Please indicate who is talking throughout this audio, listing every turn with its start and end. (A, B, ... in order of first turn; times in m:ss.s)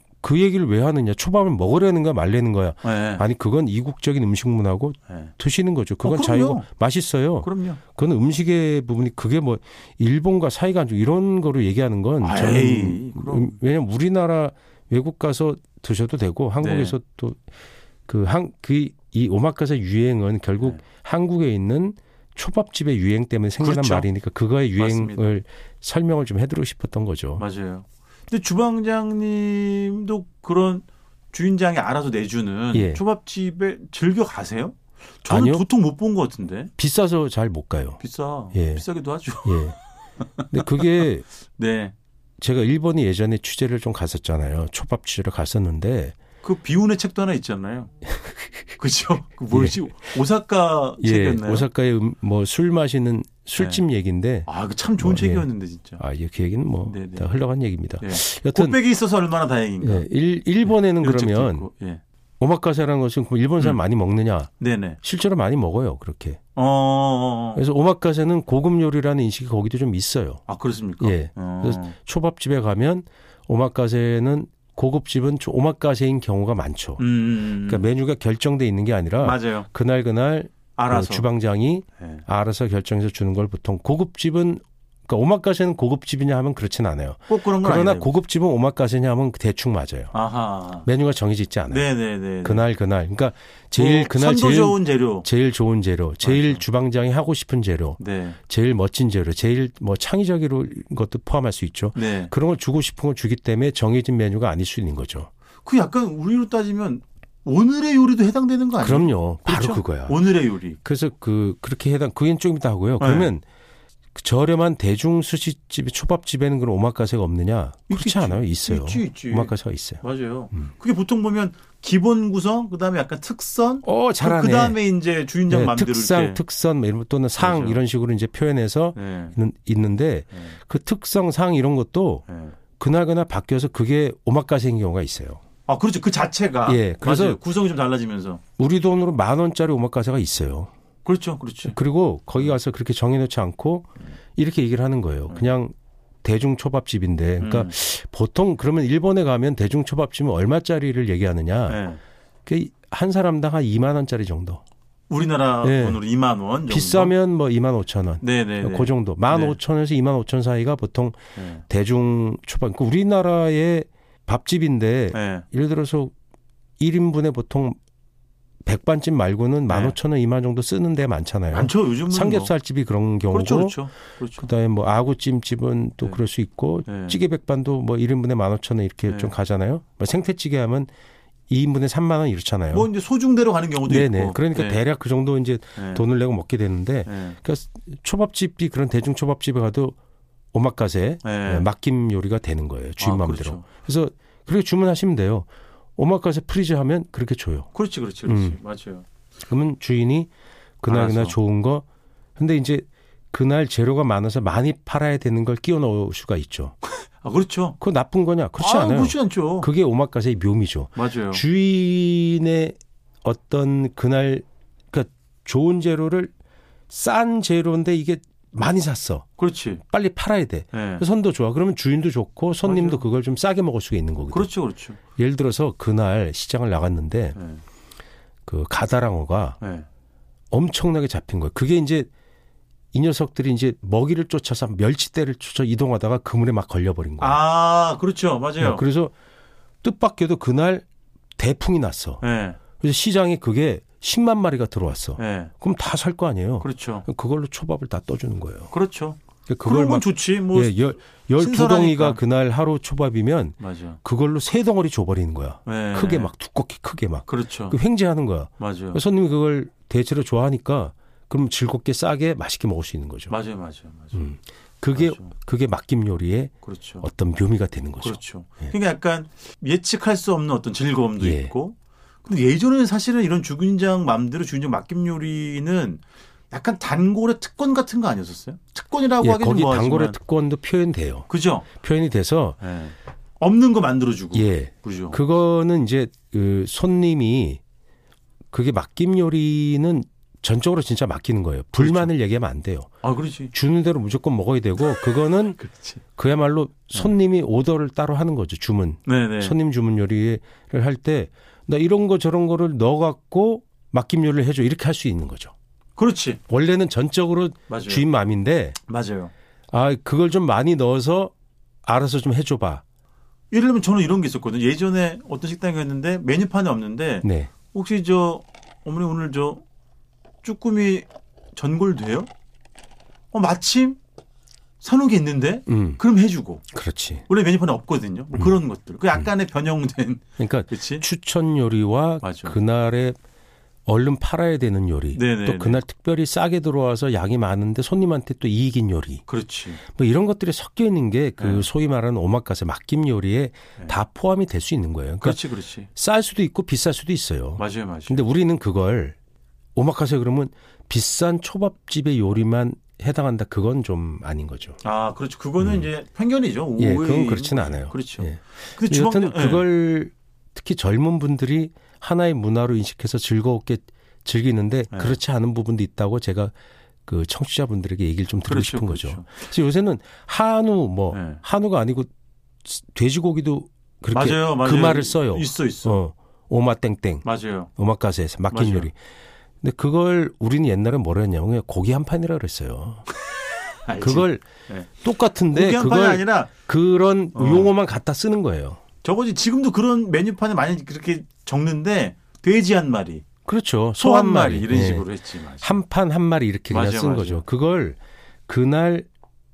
0:00.2-0:17.4 A
0:02.8-0:03.2 B
0:05.1-0:05.3 B
0:06.0-0:06.7 B
0:07.4-0:07.8 B
0:12.2-0:13.6 B
0:16.6-0:17.0 B
0:18.1-0:27.4 A
0:23.6-0:24.1 B
0:24.8-0:25.2 B
0:27.4-0:36.7 B
0:32.7-0:33.0 A
0:35.3-0:35.6 A
0:36.8-0:38.0 A
0:38.0-0:40.9 B
0:38.5-0:38.8 A
0:39.4-0:39.8 A
0:40.5-0:41.2 A
0:41.6-0:41.9 B
0:42.4-0:46.2 A
0:46.4-0:47.9 B
0:48.8-0:51.7 B
0:49.5-0:49.8 A
0:51.0-0:55.5 A
0:53.6-0:53.8 B
0:54.4-0:56.0 B
0:56.0-0:58.8 A
0:56.8-0:57.3 B
0:58.0-1:00.1 B
0:59.8-1:01.7 A
1:00.6-1:02.0 B
1:02.4-1:04.5 A
1:04.6-1:05.0 B
1:05.0-1:06.4 A
1:06.5-1:07.6 B
1:07.5-1:10.4 A
1:10.5-1:12.0 B
1:11.0-1:30.1 A
1:17.0-1:17.8 B
1:19.2-1:19.7 B
1:20.8-1:21.3 B
1:22.0-1:22.2 B
1:27.3-1:28.1 B
1:30.1-1:30.9 B
1:30.8-1:45.3 A
1:31.7-1:32.6 B
1:33.7-1:35.3 B
1:36.2-1:36.6 B
1:38.0-1:38.4 B
1:41.9-1:42.3 B
1:45.6-1:50.8 B
1:48.8-1:50.3 A
1:50.8-1:53.4 A
1:53.0-1:53.3 B
1:54.1-2:00.7 A
1:57.9-2:06.4 B
2:03.8-2:04.8 A
2:05.5-2:12.2 A
2:07.4-2:07.8 B
2:08.9-2:09.4 B
2:12.3-2:12.6 B
2:12.8-2:15.4 A
2:15.6-2:18.4 B
2:16.6-2:17.4 A
2:18.6-2:20.7 A
2:21.0-2:21.8 B
2:21.6-2:31.8 A
2:27.4-2:27.7 B
2:31.7-2:32.0 B
2:32.4-2:34.6 A
2:35.1-2:37.2 B
2:35.6-2:36.0 A
2:36.7-2:41.2 A
2:38.2-2:39.6 B
2:41.3-2:41.6 B
2:41.7-2:46.1 A
2:45.1-2:45.4 B
2:46.8-2:47.8 A
2:48.6-2:53.8 A
2:49.7-2:50.0 B
2:51.5-2:52.5 B
2:53.3-2:54.5 B
2:54.4-3:00.9 A
2:56.8-2:57.2 B
2:59.1-2:59.3 B
3:01.5-3:02.9 A
3:02.7-3:04.8 B
3:03.8-3:10.0 A
3:05.8-3:06.0 B
3:07.0-3:07.4 B
3:10.5-3:17.7 A
3:11.2-3:11.7 B
3:13.0-3:13.6 B
3:17.7-3:19.0 B
3:18.2-3:18.6 A
3:19.5-3:20.3 A
3:20.8-3:21.8 A
3:20.8-3:21.4 B
3:22.4-3:26.8 A
3:27.2-3:27.8 B
3:27.8-3:36.3 A
3:28.6-3:29.7 B
3:30.9-3:31.4 B
3:36.9-3:39.2 A
3:39.4-3:39.8 B
3:39.9-3:44.5 A
3:40.7-3:41.0 B
3:42.6-3:43.0 B
3:44.3-3:45.0 B
3:45.2-3:47.4 A
3:47.4-3:47.6 B
3:48.4-3:49.6 A
3:49.6-3:49.8 B
3:50.5-3:52.1 A
3:52.9-3:57.4 A
3:57.2-3:58.8 B
3:58.6-3:59.1 A
3:59.8-4:00.8 A
4:01.4-4:02.2 A
4:02.2-4:02.6 B
4:02.8-4:08.7 A
4:05.2-4:05.5 B
4:06.6-4:07.1 B
4:08.7-4:12.2 B
4:09.5-4:23.3 A
4:13.6-4:14.0 B
4:15.6-4:16.3 B
4:17.3-4:17.8 B
4:18.6-4:19.0 B
4:23.3-4:24.3 B
4:24.1-4:28.7 A
4:24.9-4:25.3 B
4:26.6-4:27.1 B
4:28.0-4:40.2 B
4:31.2-4:31.5 A
4:39.2-4:42.6 A
4:41.3-4:41.7 B
4:42.6-4:45.2 B
4:44.3-4:47.6 A
4:48.5-4:53.0 A
4:51.8-4:52.1 B
4:53.0-4:53.5 B
4:53.5-4:55.6 A
4:55.6-4:56.0 B
4:56.2-5:05.5 A
4:59.0-4:59.5 B
5:06.0-5:06.4 B
5:06.5-5:08.8 A
5:07.7-5:08.0 B
5:08.9-5:09.3 B
5:09.7-5:11.3 A
5:11.8-5:12.8 A
5:13.5-5:19.6 B
5:17.2-5:17.5 A
5:20.4-5:22.3 B
5:23.3-5:24.0 B
5:24.8-5:26.6 B
5:25.7-5:26.0 A
5:26.7-5:27.2 A
5:27.3-5:31.0 B
5:30.4-5:33.2 A
5:32.2-5:32.6 B
5:33.8-5:39.2 A
5:35.1-5:35.8 B
5:39.3-5:39.8 B
5:39.9-5:45.4 A
5:41.4-5:41.7 B
5:45.2-5:45.9 B
5:46.0-5:49.2 A
5:47.6-5:48.2 B
5:49.7-5:54.8 A
5:54.8-5:59.7 B
5:55.6-5:55.9 A
5:56.8-6:06.5 A
6:04.9-6:05.2 B
6:07.0-6:12.1 A
6:08.4-6:09.4 B
6:11.1-6:11.4 B
6:12.6-6:17.2 A
6:14.1-6:16.0 B
6:17.2-6:17.7 B
6:17.8-6:18.9 A
6:18.5-6:18.9 B
6:19.6-6:23.0 A
6:23.8-6:24.9 B
6:24.0-6:24.4 A
6:25.0-6:28.8 A
6:25.5-6:26.5 B
6:27.3-6:27.7 B
6:29.0-6:33.2 B
6:33.4-6:35.1 A
6:34.0-6:35.8 B
6:35.6-6:39.1 A
6:36.7-6:37.4 B